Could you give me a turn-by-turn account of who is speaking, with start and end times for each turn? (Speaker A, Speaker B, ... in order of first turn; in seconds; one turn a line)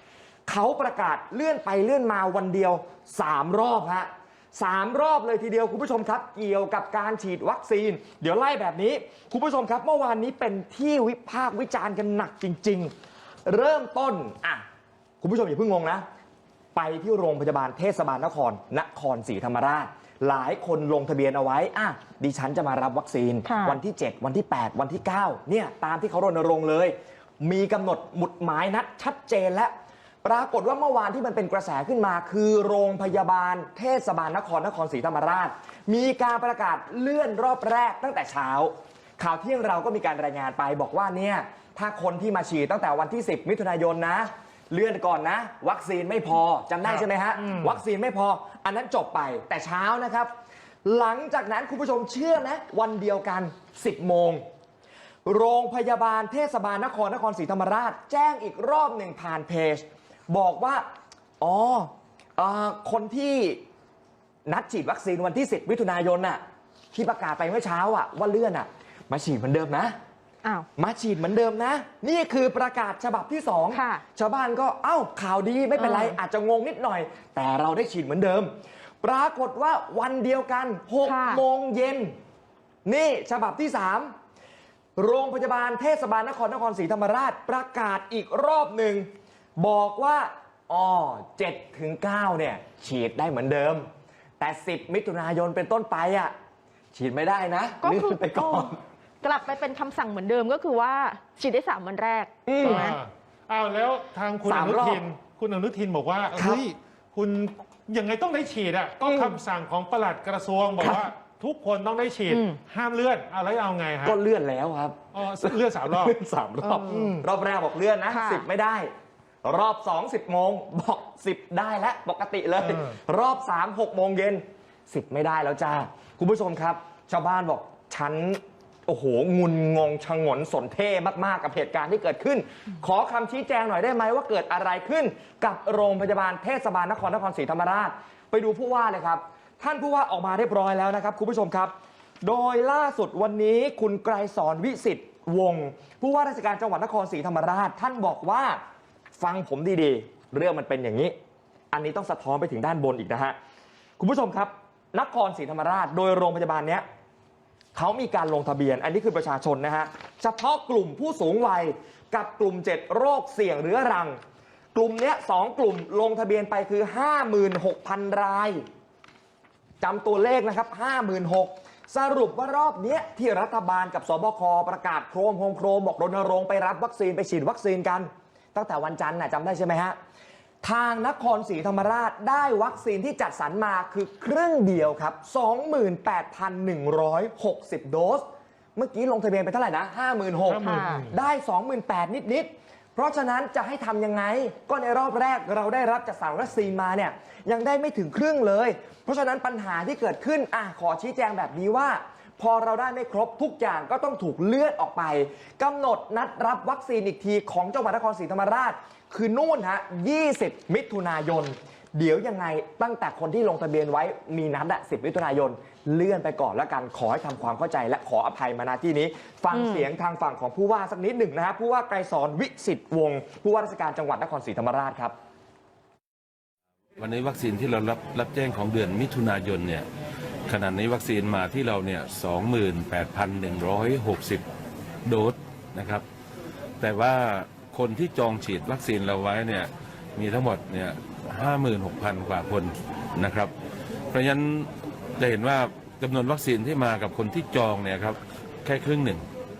Speaker A: 0.5-12.9
Speaker A: 13.5-14.6
Speaker A: 15.2-16.0
Speaker A: 16.8-29.7
Speaker B: 23.4-23.8
Speaker A: 30.2-50.3
Speaker C: 46.9-47.7
Speaker A: 50.9-54.4
Speaker A: 55.2-60.9
Speaker A: 61.4-63.6
Speaker A: 64.5-66.4
Speaker A: 66.9-69.9
Speaker A: 70.8-78.5
Speaker B: 73.7-74.0
Speaker B: 75.8-76.2
Speaker A: 79.0-82.1
Speaker B: 81.0-81.4
Speaker A: 82.9-84.1
Speaker A: 85.0-93.9
Speaker A: 94.4-96.3
Speaker A: 96.9-98.8
Speaker B: 97.8-98.7
Speaker B: 99.2-103.0
Speaker A: 102.5-102.9
Speaker C: 102.6-114.2
Speaker A: 104.5-105.0
Speaker A: 106.3-106.6
Speaker A: 109.0-109.4
Speaker B: 110.8-111.1
Speaker B: 112.3-112.6
Speaker A: 114.0-118.9
Speaker C: 115.1-116.1
Speaker B: 116.6-117.2
Speaker B: 118.1-118.5
Speaker A: 119.4-141.7
Speaker C: 122.6-123.0
Speaker A: 142.2-148.6
Speaker A: 149.2-151.2
Speaker A: 151.7-153.4
Speaker A: 154.0-156.8
Speaker A: 157.8-164.2
Speaker A: 164.7-168.6
Speaker A: 169.8-180.0
Speaker A: 180.6-188.2
Speaker A: 188.8-225.1
Speaker C: 190.5-191.1
Speaker B: 190.6-191.1
Speaker B: 219.5-219.9
Speaker D: 227.0-229.9
Speaker D: 230.5-234.4
Speaker D: 235.1-236.0
Speaker D: 236.8-243.5
Speaker D: 244.1-249.2